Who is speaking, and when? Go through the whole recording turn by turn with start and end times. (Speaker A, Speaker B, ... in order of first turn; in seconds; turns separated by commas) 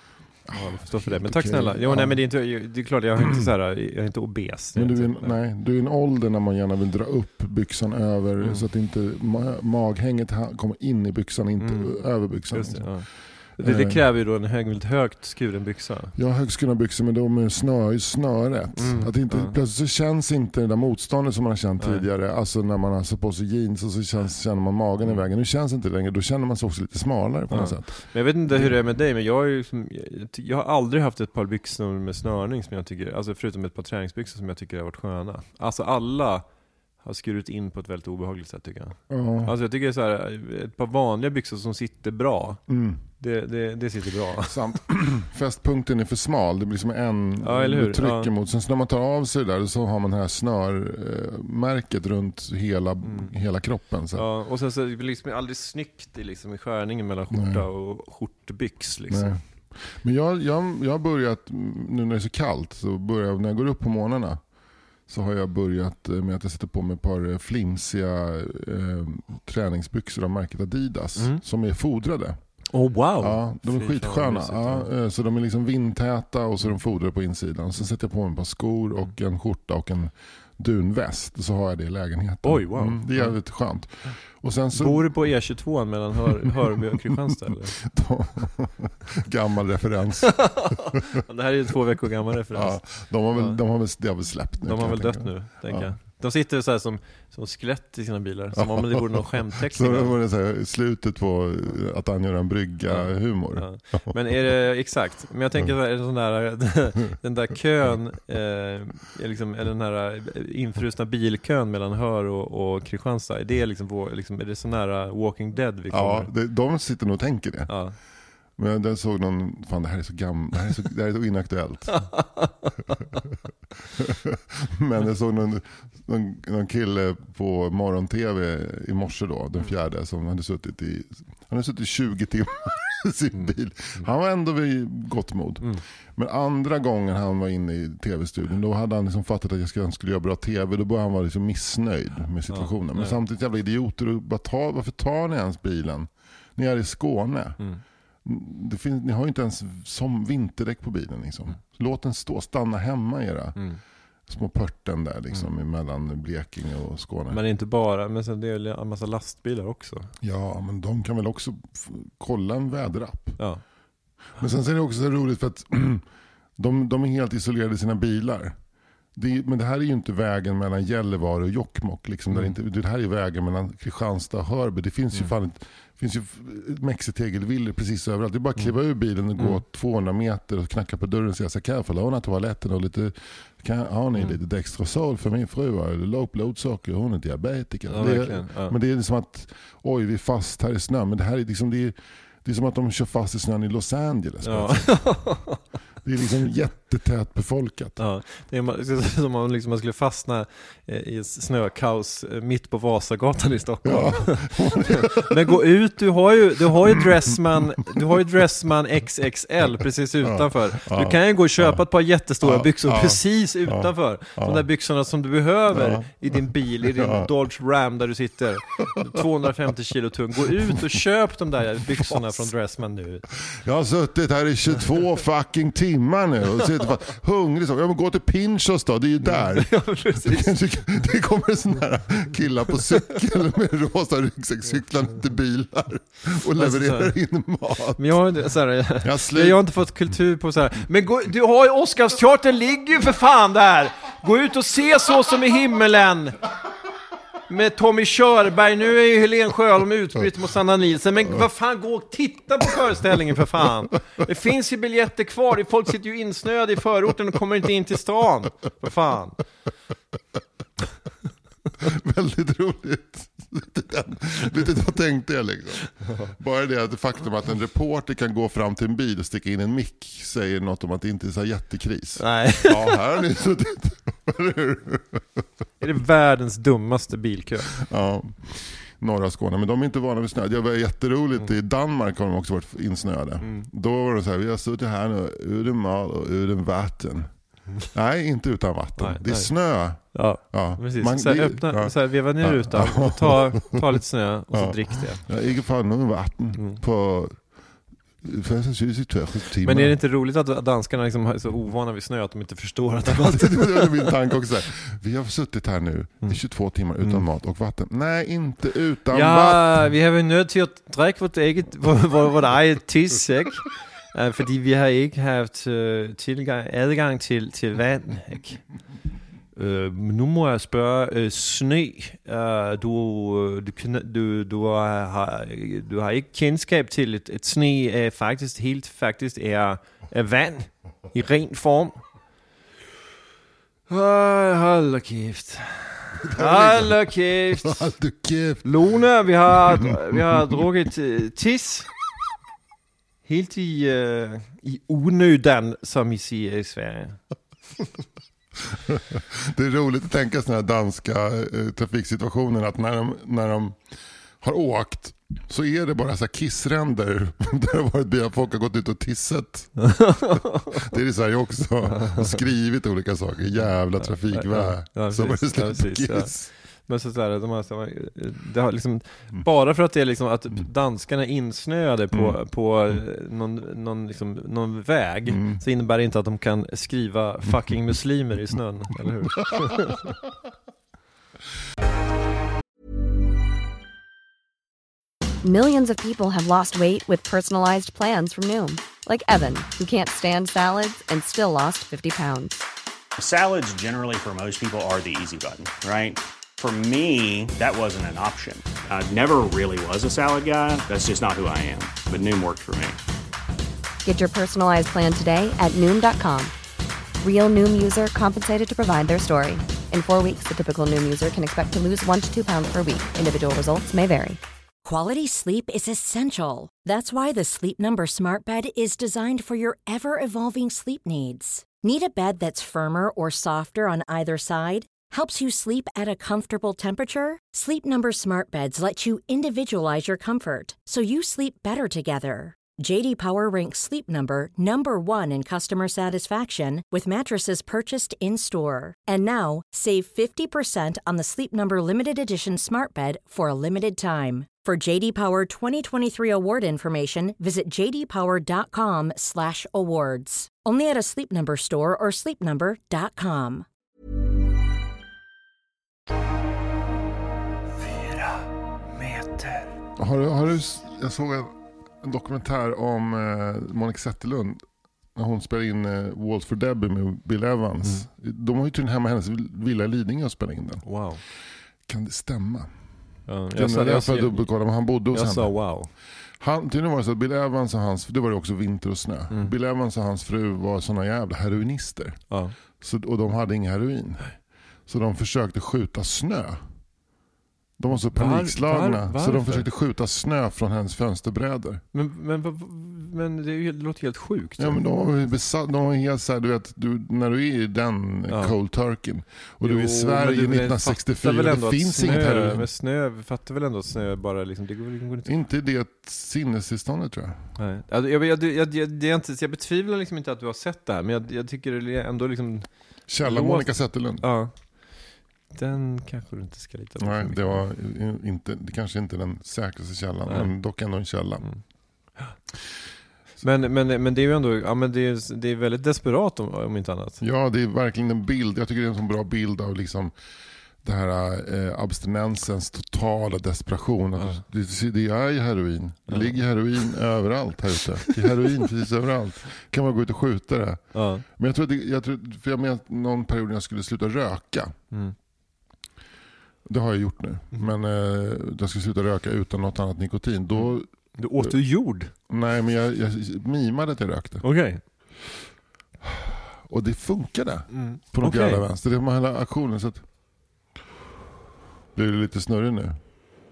Speaker A: 0.4-2.2, Speaker B: 0.5-5.4, Speaker A: 4.7-14.0, Speaker B: 11.6-16.1, Speaker A: 16.1-28.8, Speaker B: 18.8-19.6, Speaker B: 27.5-36.4, Speaker B: 37.0-42.6, Speaker A: 39.1-39.5, Speaker A: 42.7-43.0, Speaker B: 43.2-44.6, Speaker A: 44.4-54.2, Speaker B: 47.4-48.3, Speaker B: 53.0-53.3, Speaker B: 54.1-59.3, Speaker A: 57.3-57.6, Speaker A: 59.1-64.4, Speaker A: 65.1-72.4, Speaker B: 72.7-74.9, Speaker A: 73.2-85.1, Speaker B: 82.4-83.3, Speaker B: 84.8-87.8, Speaker A: 87.5-90.7, Speaker B: 90.3-93.6, Speaker A: 92.5-95.9, Speaker B: 94.6-100.2, Speaker A: 98.5-104.1, Speaker B: 102.9-116.3, Speaker A: 115.9-117.8, Speaker B: 117.7-118.0, Speaker A: 118.6-122.1, Speaker B: 121.9-122.7, Speaker A: 124.0-147.6, Speaker B: 133.3-134.0, Speaker B: 142.5-143.2, Speaker A: 148.2-153.6, Speaker B: 153.6-153.8, Speaker A: 154.3-157.4, Speaker B: 157.3-160.1, Speaker A: 160.2-163.4, Speaker B: 163.4-163.6, Speaker A: 164.4-166.1, Speaker A: 166.6-168.6, Speaker A: 169.1-195.1, Speaker B: 187.9-188.8, Speaker B: 194.4-195.6, Speaker A: 196.0-198.0, Speaker B: 198.0-223.3, Speaker A: 203.8-205.4, Speaker A: 210.2-211.8, Speaker A: 212.4-214.6, Speaker A: 215.7-217.3, Speaker A: 222.0-222.4, Speaker A: 223.5-238.0, Speaker B: 229.3-230.6, Speaker B: 236.6-237.1, Speaker B: 237.9-246.4, Speaker A: 239.0-239.6, Speaker B: 247.5-259.4, Speaker A: 261.8-275.4, Speaker B: 266.0-266.3, Speaker B: 272.2-273.0, Speaker B: 275.8-277.8, Speaker A: 277.8-287.3, Speaker B: 283.4-283.7, Speaker A: 287.9-293.8, Speaker B: 289.0-295.2, Speaker A: 294.5-297.5, Speaker B: 296.5-296.8, Speaker A: 298.2-299.9, Speaker B: 299.6-304.1, Speaker A: 303.1-309.7, Speaker B: 309.1-318.6, Speaker B: 319.6-331.9, Speaker B: 333.9-337.9, Speaker A: 336.2-338.7, Speaker B: 338.6-341.9, Speaker A: 339.7-340.6, Speaker B: 343.2-347.2, Speaker A: 348.7-353.8, Speaker A: 354.4-360.1, Speaker B: 359.8-360.8, Speaker A: 360.7-366.5, Speaker B: 361.9-362.4, Speaker B: 364.0-380.0, Speaker A: 372.1-372.4, Speaker A: 375.3-375.6, Speaker A: 379.4-379.8, Speaker C: 385.4-392.6, Speaker D: 393.2-403.0, Speaker C: 404.0-406.5, Speaker C: 407.2-414.4, Speaker E: 414.8-453.6, Speaker B: 457.8-459.7, Speaker A: 460.0-464.6, Speaker A: 465.1-470.9, Speaker B: 470.8-471.2, Speaker A: 471.9-472.7, Speaker B: 473.3-474.5, Speaker A: 473.5-475.7, Speaker B: 475.1-475.9, Speaker A: 476.4-482.2, Speaker B: 482.3-482.6, Speaker A: 482.8-484.3, Speaker A: 484.9-486.7, Speaker A: 487.8-491.8, Speaker B: 488.1-489.7, Speaker B: 491.9-494.8, Speaker A: 494.6-502.7, Speaker B: 498.3-498.5, Speaker B: 499.6-505.3, Speaker A: 505.2-507.4, Speaker B: 507.6-517.6, Speaker A: 513.1-514.2, Speaker A: 517.0-521.4, Speaker B: 523.4-527.2, Speaker A: 527.2-530.1, Speaker A: 530.8-544.8, Speaker B: 540.9-541.2, Speaker A: 546.6-551.5, Speaker B: 550.5-552.1, Speaker A: 552.3-554.4, Speaker B: 554.4-554.8, Speaker A: 556.0-560.0, Speaker B: 557.7-558.6, Speaker A: 561.9-563.0